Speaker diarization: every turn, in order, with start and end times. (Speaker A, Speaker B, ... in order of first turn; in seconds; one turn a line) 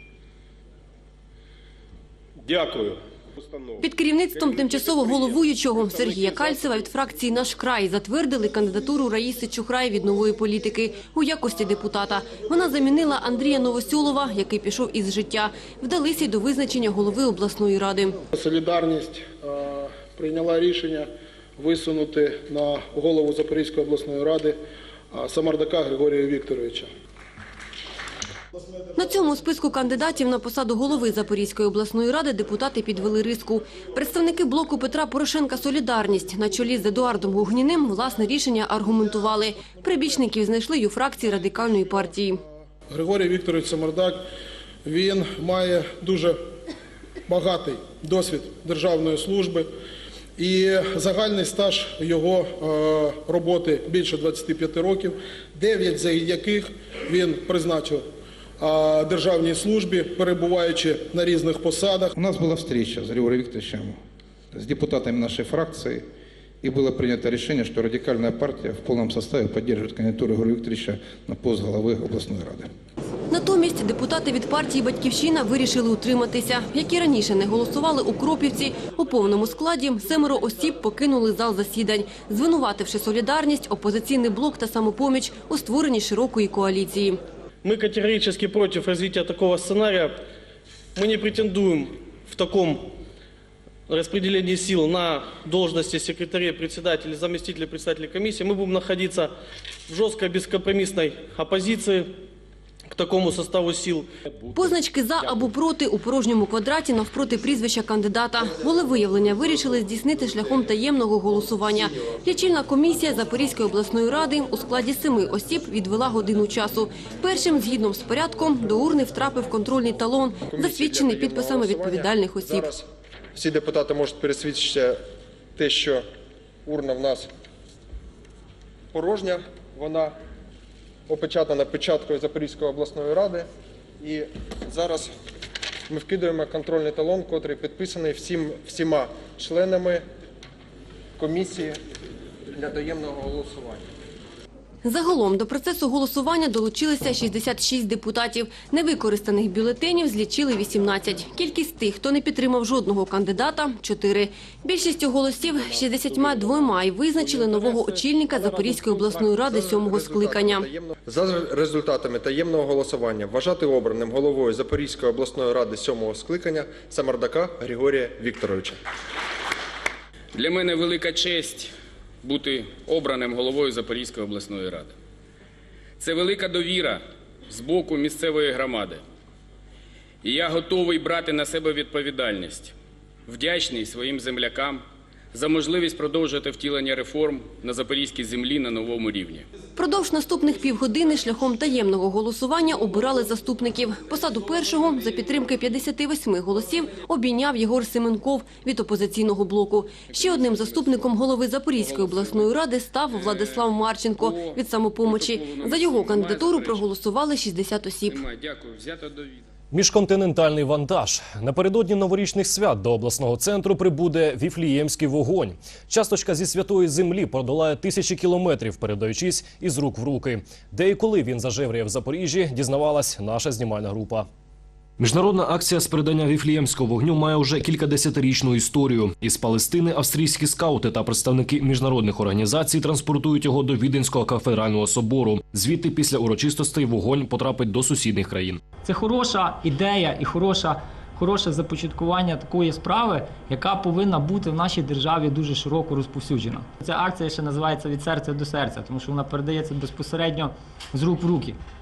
Speaker A: 2.5-2.9
Speaker B: 3.8-18.2
Speaker C: 18.3-21.1
Speaker C: 21.6-24.6
Speaker C: 25.1-26.9
Speaker B: 29.0-42.4
Speaker C: 42.9-44.2
Speaker C: 44.9-46.4
Speaker C: 47.3-49.7
Speaker C: 50.4-58.0
Speaker C: 58.6-62.1
Speaker D: 62.2-64.0
Speaker D: 64.5-66.0
Speaker D: 66.6-72.7
Speaker B: 73.3-87.2
Speaker A: 87.6-90.2
Speaker A: 91.0-92.9
Speaker A: 93.9-99.3
Speaker A: 99.9-102.2
Speaker A: 102.9-104.1
Speaker B: 104.5-122.8
Speaker E: 120.4-125.0
Speaker E: 125.6-126.0
Speaker E: 126.7-127.3
Speaker E: 128.9-130.2
Speaker E: 131.1-133.5
Speaker E: 134.0-135.1
Speaker E: 135.9-140.0
Speaker E: 141.2-141.8
Speaker E: 142.5-143.8
Speaker B: 144.8-160.7
Speaker E: 155.6-168.8
Speaker F: 170.3-171.7
Speaker F: 172.2-174.9
Speaker F: 176.0-179.0
Speaker F: 180.2-182.7
Speaker F: 183.3-189.5
Speaker B: 189.8-208.2
Speaker F: 200.1-201.0
Speaker F: 201.8-202.5
Speaker F: 203.1-206.9
Speaker F: 208.1-209.4
Speaker G: 209.7-224.3
Speaker G: 225.0-238.7
Speaker H: 238.8-251.6